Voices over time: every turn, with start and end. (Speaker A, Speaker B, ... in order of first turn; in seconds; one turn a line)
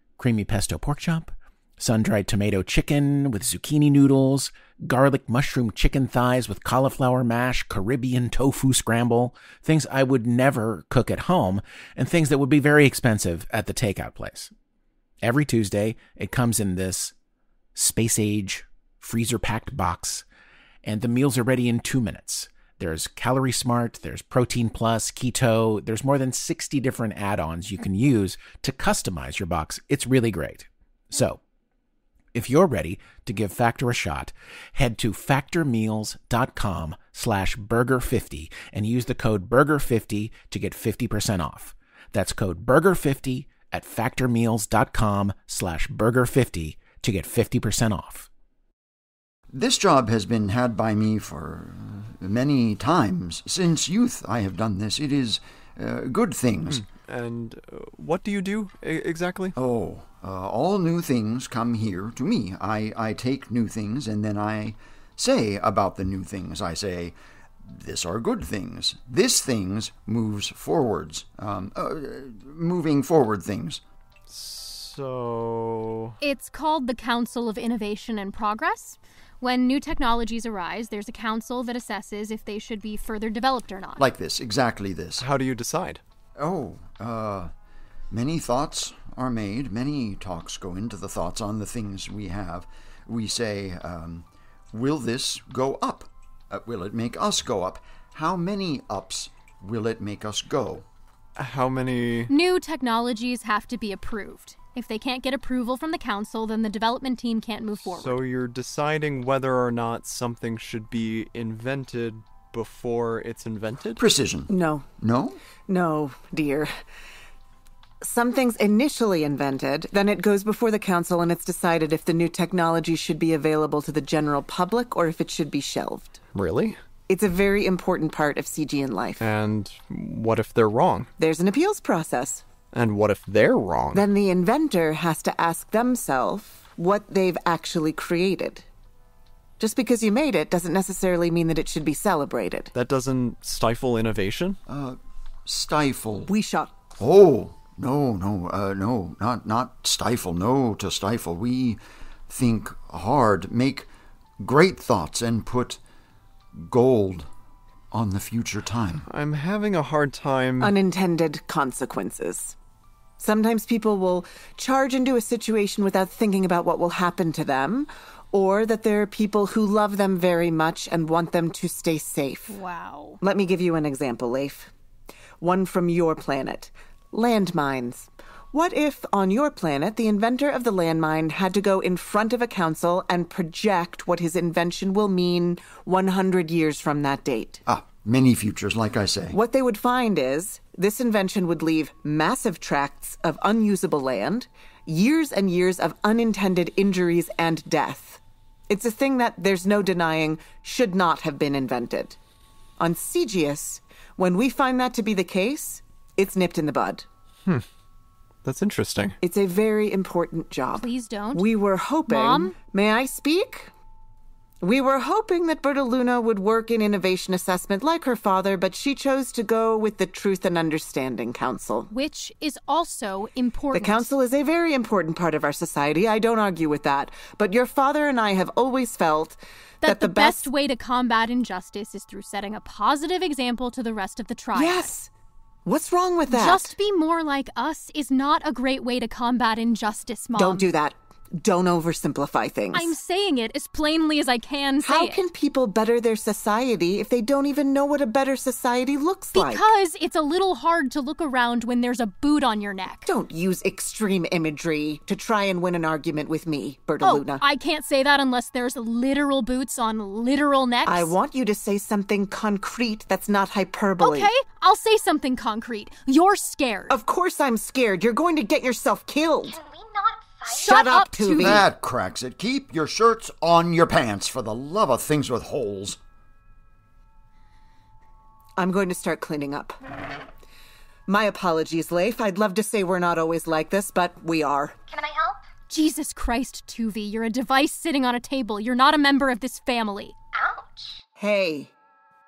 Speaker A: 0.2-14.5
Speaker A: 15.2-17.1
Speaker A: 17.7-20.2
Speaker A: 20.8-31.4
Speaker A: 32.3-48.3
Speaker B: 49.5-56.8
Speaker C: 56.7-59.5
Speaker B: 59.5-73.8
Speaker C: 74.3-76.1
Speaker D: 76.2-84.1
Speaker B: 84.0-85.3
Speaker C: 85.2-86.0
Speaker B: 86.4-87.5
Speaker B: 88.1-100.8
Speaker C: 101.4-102.3
Speaker D: 102.3-108.2
Speaker C: 107.8-114.0
Speaker B: 114.0-115.4
Speaker E: 114.5-114.9
Speaker E: 115.7-116.7
Speaker E: 118.0-126.2
Speaker C: 126.3-126.8
Speaker E: 127.1-129.2
Speaker C: 129.2-131.1
Speaker E: 131.2-132.4
Speaker C: 132.7-134.1
Speaker E: 133.9-138.6
Speaker E: 139.6-142.7
Speaker C: 142.7-144.6
Speaker B: 144.7-146.3
Speaker E: 146.3-146.8
Speaker B: 147.0-153.9
Speaker B: 154.4-155.8
Speaker B: 156.5-157.3
Speaker B: 157.9-159.1
Speaker C: 159.1-160.7
Speaker E: 160.6-162.6
Speaker E: 163.2-172.6
Speaker D: 172.5-173.2
Speaker E: 173.2-174.7
Speaker E: 175.4-187.6
Speaker B: 187.7-189.4
Speaker E: 189.3-202.2
Speaker E: 202.8-207.1
Speaker C: 208.4-209.2
Speaker E: 209.2-213.7
Speaker D: 210.7-211.4
Speaker D: 212.1-212.6
Speaker E: 214.6-221.9
Speaker D: 221.9-224.1
Speaker E: 223.7-230.5
Speaker D: 229.8-234.9
Speaker E: 234.5-235.1
Speaker E: 235.6-236.7
Speaker D: 236.3-240.7
Speaker E: 240.3-242.9
Speaker D: 242.7-245.2
Speaker E: 244.8-249.7
Speaker D: 249.3-253.1
Speaker E: 253.1-257.4
Speaker D: 257.0-261.1
Speaker E: 260.8-264.3
Speaker D: 264.0-267.0
Speaker E: 266.9-269.6
Speaker F: 269.4-270.9
Speaker E: 270.5-271.6
Speaker D: 270.5-271.6
Speaker B: 271.4-276.0
Speaker E: 278.6-279.8
Speaker E: 281.1-284.8
Speaker F: 284.9-285.5
Speaker D: 285.7-290.1
Speaker F: 290.3-291.0
Speaker E: 291.2-291.7